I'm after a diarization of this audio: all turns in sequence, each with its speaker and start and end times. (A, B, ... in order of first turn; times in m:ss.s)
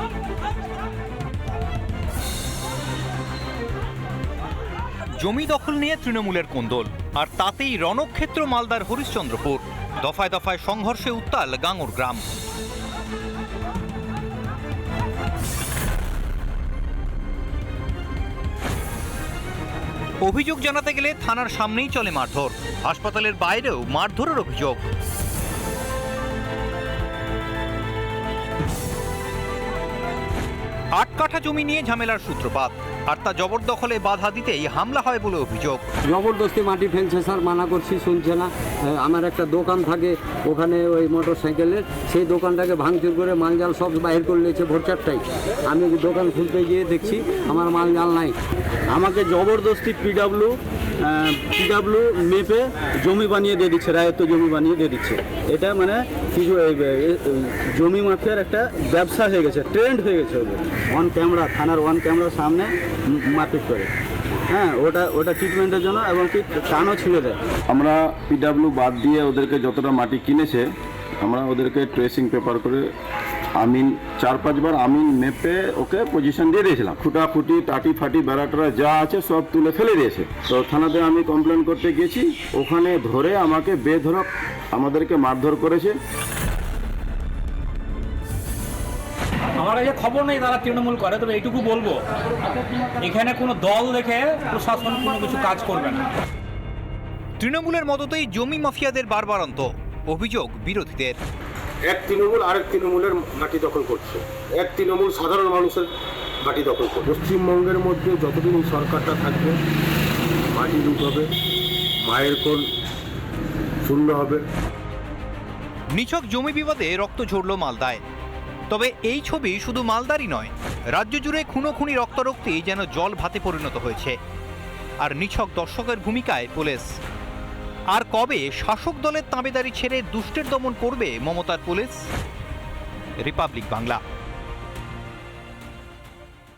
0:05.2-0:12.3 A
0:20.2-0:24.8 A
0:31.0-0:35.8 A
0:36.0-0:48.4 B
0:48.9-1:03.9 C
1:04.5-1:07.4 C
1:07.7-1:10.7 D
1:11.2-1:12.9 D
1:13.6-1:26.0 D
1:29.6-1:32.0 E
1:33.0-1:36.1 E
1:37.4-1:41.2 A
1:41.9-1:45.9 F
1:46.4-1:49.6 F
1:50.5-1:51.3 F
1:52.0-1:52.7 F
1:53.8-1:54.4 F
1:55.9-1:58.0 A
1:58.7-2:04.2 A
2:05.0-2:06.9 A
2:07.9-2:12.0 A
2:13.2-2:14.0 A